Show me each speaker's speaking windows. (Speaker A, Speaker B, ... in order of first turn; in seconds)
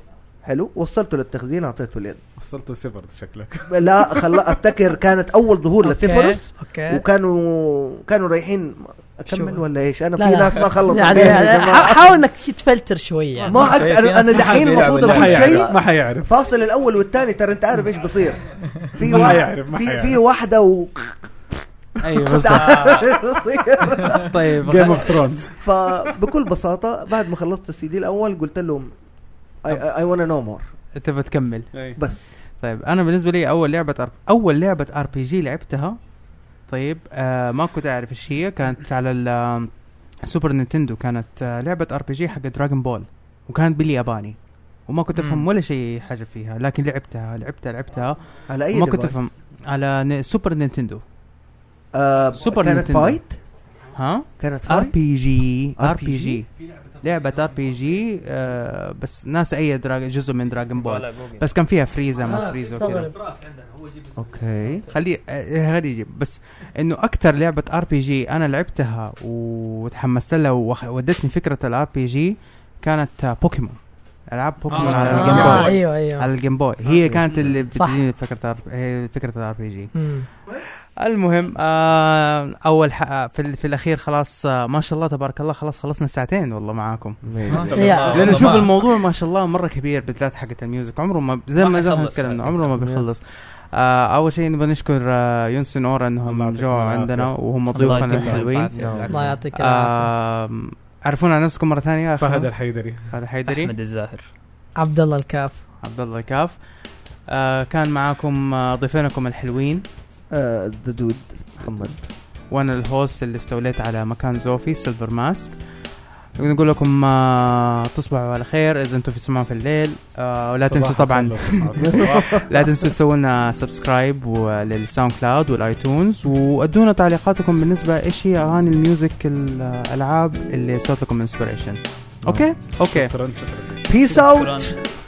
Speaker A: 0.4-2.2, 3.7-12.1, 13.4-15.7, 16.3-21.3, 22.1-24.4, 25.6-28.9, 29.6-30.7, 32.0-32.3, 48.5-49.2, 51.9-53.4, 54.4-55.0, 55.8-56.4, 64.2-64.9, 77.0-77.5, 87.3-88.1, 92.8-93.1, 98.8-99.3, 110.3-112.1, 121.9-122.4, 133.9-134.8
Speaker B: 2.4-4.6, 14.3-16.3, 19.0-20.2, 24.6-26.1, 31.7-32.0, 74.7-75.8, 87.4-87.9, 96.2-98.5, 102.2-103.1, 120.7-122.5, 132.7-133.8
Speaker C: 5.8-7.0, 9.3-9.6, 10.2-13.6, 62.2-63.2, 75.0-76.3, 77.7-78.0, 80.0-80.3, 87.7-88.6, 99.1-100.1, 104.8-105.6
Speaker D: 13.5-15.7, 45.1-45.5, 60.8-61.5, 87.5-88.7, 91.6-92.6, 97.7-99.5, 103.5-104.3, 134.0-134.8
Speaker E: 22.0-23.1, 24.1-25.1, 30.9-31.7, 32.6-36.0, 36.7-44.4, 44.9-51.0, 52.3-53.2, 53.9-63.1, 64.9-73.8, 74.3-79.9, 80.5-87.5, 88.1-98.9, 99.5-102.5, 103.1-103.7, 105.8-106.6, 107.3-109.8, 112.5-115.5, 116.4-133.1